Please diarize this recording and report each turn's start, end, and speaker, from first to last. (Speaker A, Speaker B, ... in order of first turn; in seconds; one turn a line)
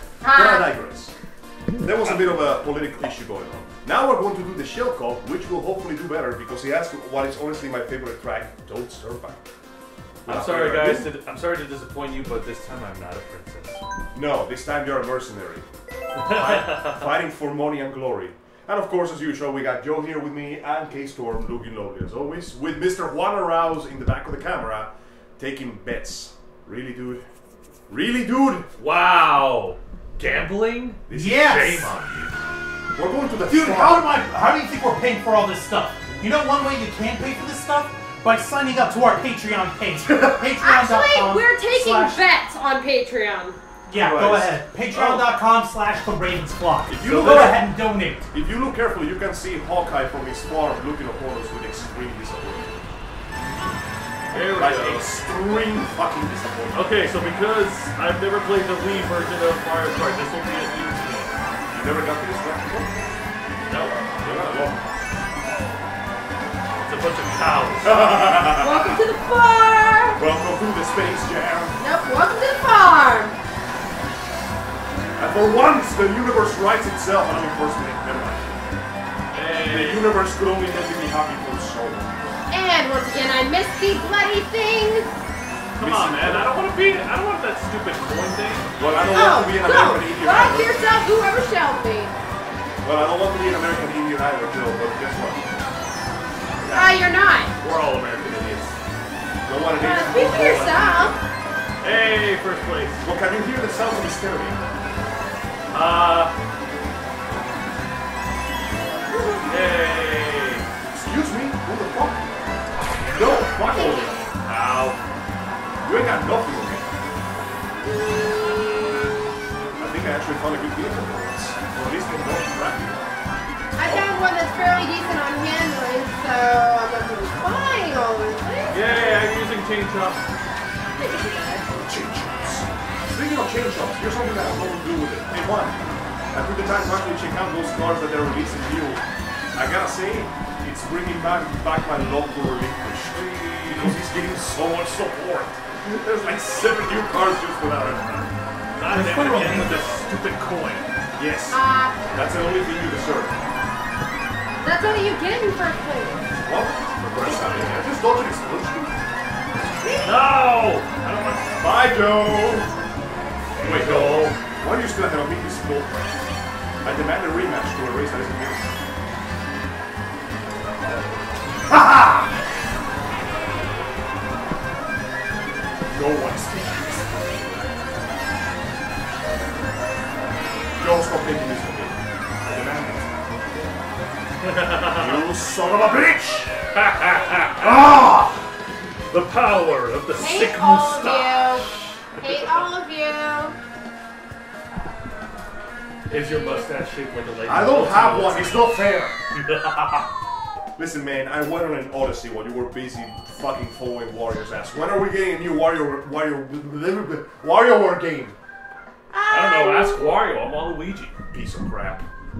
Speaker A: 0.2-0.7
Speaker B: 0.2-1.1
Speaker B: 1.8-9.4
Speaker B: 10.2-11.1
Speaker C: 10.2-13.8
Speaker B: 14.1-15.7
Speaker C: 16.1-17.1
Speaker B: 16.3-27.2
Speaker B: 27.9-28.7
Speaker C: 28.8-32.3
Speaker B: 31.1-31.6
Speaker D: 31.1-31.9
Speaker B: 32.9-34.0
Speaker D: 33.5-42.2
Speaker A: 40.6-43.6
Speaker D: 43.9-48.3
Speaker B: 43.9-45.3
Speaker B: 46.9-47.7
Speaker C: 47.0-47.5
Speaker B: 48.3-52.8
Speaker C: 54.3-55.1
Speaker B: 54.4-57.0
Speaker C: 56.7-61.3
Speaker B: 61.7-62.9
Speaker C: 63.6-64.4
Speaker B: 64.2-64.8
Speaker C: 66.8-68.0
Speaker B: 67.8-69.0
Speaker A: 68.5-70.2
Speaker B: 70.2-71.8
Speaker A: 71.8-73.3
Speaker B: 75.2-78.5
Speaker C: 79.3-80.2
Speaker B: 79.6-82.2
Speaker A: 82.5-85.1
Speaker C: 85.8-89.0
Speaker B: 85.8-86.5
Speaker B: 88.8-90.8
Speaker A: 89.1-92.1
Speaker B: 92.8-95.5
Speaker B: 96.6-96.9
Speaker A: 96.7-97.5
Speaker C: 97.6-98.8
Speaker B: 99.4-101.2
Speaker A: 99.7-101.2
Speaker C: 101.8-103.0
Speaker B: 103.0-104.6
Speaker C: 105.7-106.3
Speaker A: 109.1-109.7
Speaker C: 109.4-110.7
Speaker B: 110.9-112.3
Speaker B: 113.1-114.2
Speaker A: 113.4-114.3
Speaker C: 114.4-115.0
Speaker B: 115.8-116.9
Speaker A: 118.1-118.7
Speaker B: 119.8-123.0
Speaker A: 123.8-129.3
Speaker C: 128.7-130.2
Speaker A: 130.9-131.7
Speaker B: 131.8-135.8
Speaker B: 136.3-139.0
Speaker B: 139.5-148.3
Speaker C: 143.1-143.9
Speaker C: 148.8-150.9
Speaker D: 148.9-150.0
Speaker B: 151.2-153.4
Speaker A: 151.5-152.1
Speaker A: 154.6-156.2
Speaker B: 156.4-159.0
Speaker C: 157.0-157.8
Speaker C: 160.0-161.7
Speaker B: 161.6-162.7
Speaker C: 163.6-164.4
Speaker B: 163.6-166.1
Speaker B: 166.8-168.7
Speaker B: 171.7-172.4
Speaker B: 175.9-177.5
Speaker B: 180.8-183.5
Speaker C: 184.4-185.2
Speaker B: 184.8-186.6
Speaker C: 186.7-187.8
Speaker B: 187.6-188.5
Speaker C: 189.1-191.8
Speaker A: 190.2-193.6
Speaker C: 196.1-198.7
Speaker B: 197.4-199.2
Speaker C: 199.3-200.1
Speaker B: 200.8-208.3
Speaker A: 209.1-210.1
Speaker C: 209.3-212.0